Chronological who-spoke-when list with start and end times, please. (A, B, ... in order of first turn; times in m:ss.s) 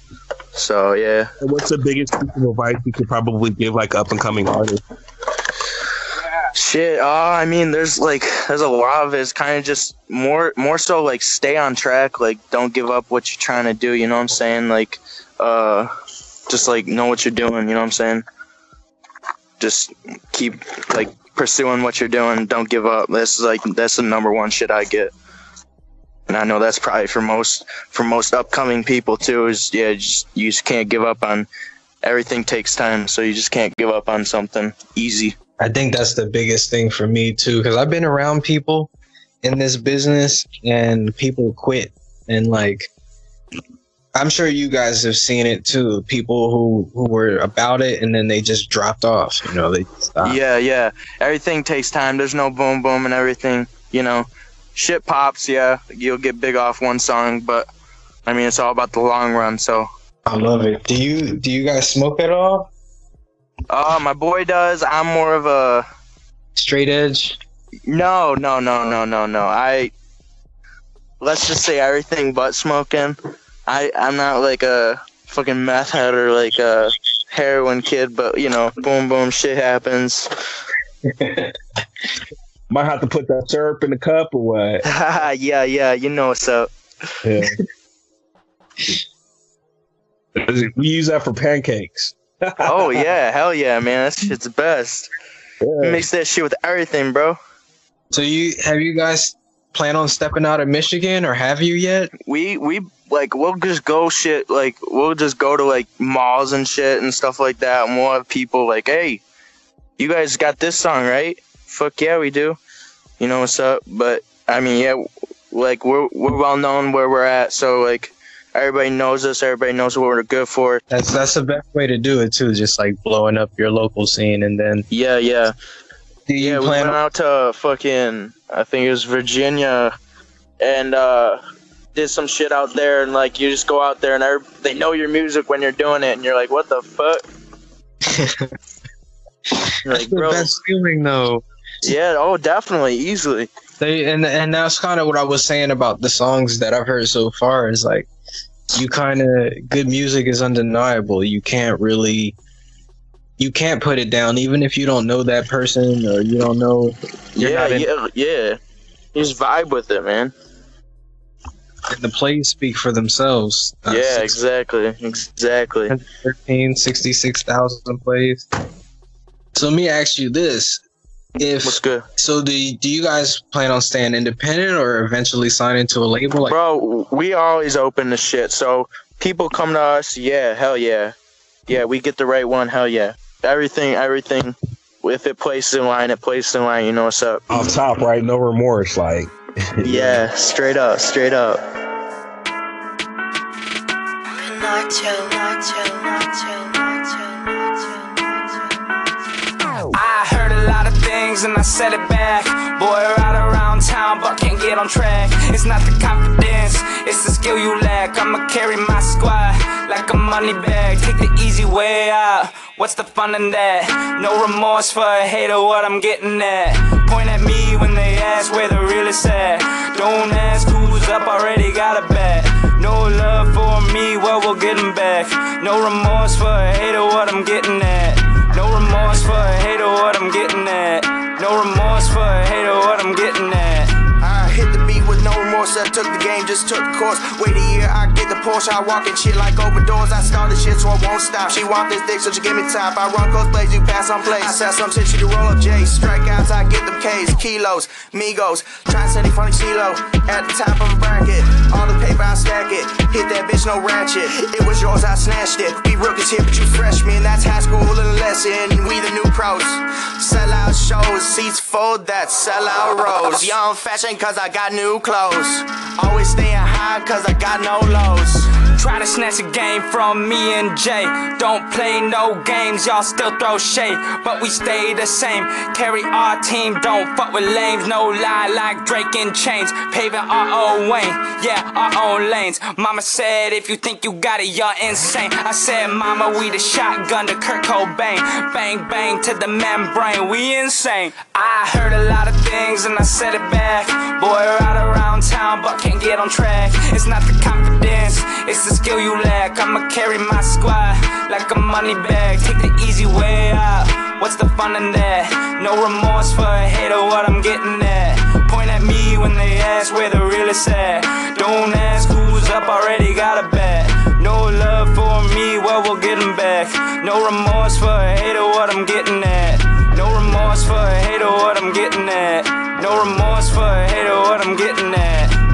0:00.5-0:01.3 A
0:01.4-0:04.8 B
0:06.5-0:15.9 A
0:16.5-0:18.2 A
0:19.6-0:25.1 A
0:26.3-0:31.5 A
0:32.0-0:35.4 A
0:35.6-0:38.9 C
0:39.4-0:42.9 C
0:44.1-0:50.4 C
0:50.2-0:57.7 A
0:58.2-0:59.9 A
1:00.2-1:02.7 C
1:03.7-1:05.8 A
1:06.5-1:07.4 C
1:07.9-1:09.9 A
1:11.2-1:20.3 A
1:21.0-1:21.5 C
1:22.7-1:24.8 B
1:24.8-1:26.7 A
1:27.2-1:27.6 B
1:30.4-1:33.0 B
1:32.6-1:35.1 A
1:35.6-1:36.0 B
1:35.8-1:37.4 A
1:38.1-1:42.1 C
1:42.3-1:49.2 A
1:50.0-1:52.6 A
1:53.2-2:00.8 A
2:00.9-2:04.8 C
2:04.9-2:05.5 A
2:06.3-2:07.0 C
2:06.4-2:09.9 A
2:10.6-2:11.4 A
2:12.0-2:17.2 A
2:18.0-2:18.5 C
2:19.6-2:21.4 C
2:19.8-2:20.5 A
2:21.8-2:23.5 A
2:23.8-2:28.1 C
2:28.7-2:32.4 C
2:33.4-2:37.9 C
2:37.4-2:38.6 A
2:39.1-2:40.3 A
2:41.9-2:44.4 C
2:43.9-2:45.9 A
2:45.9-2:48.4 C
2:49.5-2:50.8 C
2:51.4-2:56.6 C
2:51.6-2:52.0 A
2:56.4-3:01.1 A
3:01.7-3:07.4 A
3:07.5-3:10.2 B
3:09.8-3:11.6 A
3:19.9-3:53.9 D
3:54.2-4:28.5 E
4:28.7-5:25.4 D